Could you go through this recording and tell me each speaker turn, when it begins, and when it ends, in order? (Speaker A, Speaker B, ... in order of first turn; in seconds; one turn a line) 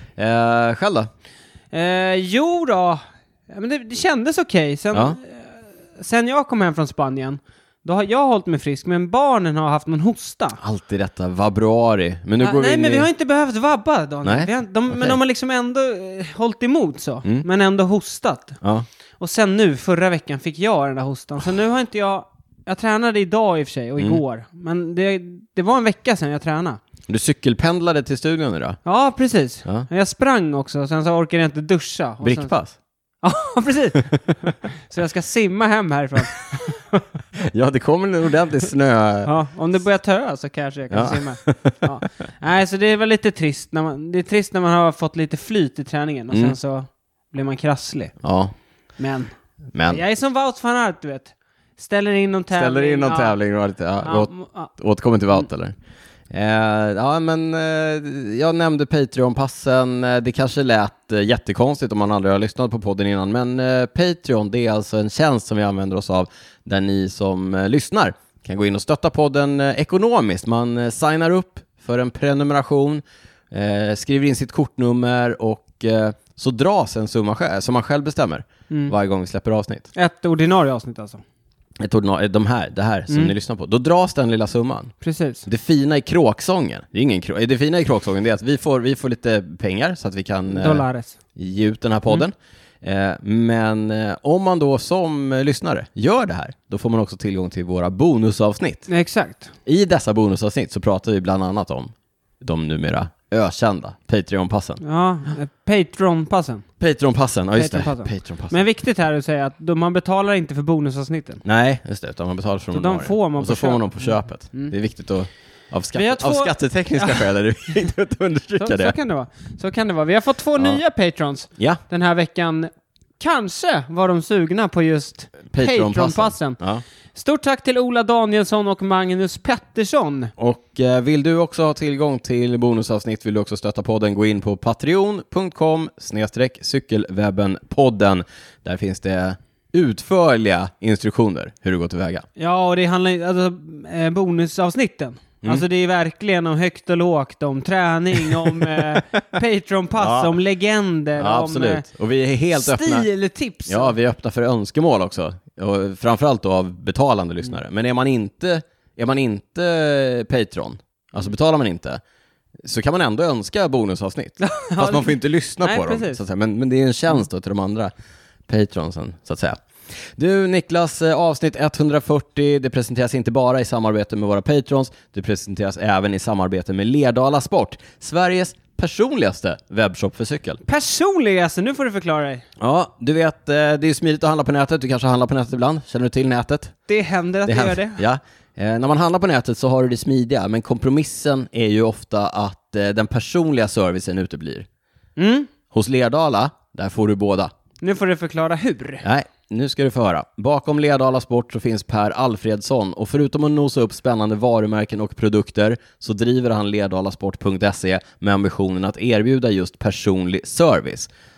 Speaker A: 0.2-1.1
Speaker B: 1.7-10.6
Speaker A: 10.6-13.1
Speaker B: 12.4-18.6
Speaker A: 14.2-15.2
Speaker B: 19.2-26.8
Speaker A: 27.1-28.8
Speaker B: 28.9-32.5
Speaker A: 32.2-32.8
Speaker B: 33.2-34.1
Speaker A: 34.0-34.6
Speaker B: 34.6-36.8
Speaker A: 36.2-39.3
Speaker B: 39.2-48.1
Speaker A: 40.9-41.8
Speaker A: 46.3-46.6
Speaker A: 48.2-48.5
Speaker B: 49.0-49.3
Speaker A: 49.7-50.0
Speaker B: 49.9-53.4
Speaker A: 52.5-55.8
Speaker B: 54.0-54.7
Speaker A: 56.3-79.9
Speaker B: 80.0-81.2
Speaker A: 81.8-84.9
Speaker B: 85.0-85.5
Speaker A: 85.5-98.9
Speaker B: 90.5-91.2
Speaker B: 98.9-99.5
Speaker A: 99.7-104.8
Speaker B: 104.8-106.7
Speaker A: 106.8-108.6
Speaker B: 107.6-111.4
Speaker A: 111.4-119.0
Speaker B: 112.7-114.7
Speaker B: 116.0-117.3
Speaker B: 118.6-126.6
Speaker A: 125.5-126.8
Speaker B: 127.2-130.3
Speaker A: 130.4-142.3
Speaker B: 142.4-151.8
Speaker A: 148.2-149.3
Speaker A: 150.0-150.3
Speaker A: 151.2-153.1
Speaker B: 152.5-153.9
Speaker A: 153.7-162.0
Speaker A: 162.7-167.9
Speaker B: 164.4-166.2
Speaker A: 168.5-169.6
Speaker A: 170.2-180.6
Speaker B: 180.6-182.4
Speaker A: 182.6-186.8
Speaker B: 186.9-188.0
Speaker A: 187.4-194.7
Speaker B: 195.2-195.5
Speaker A: 195.7-197.5
Speaker B: 197.8-199.0
Speaker A: 199.0-211.1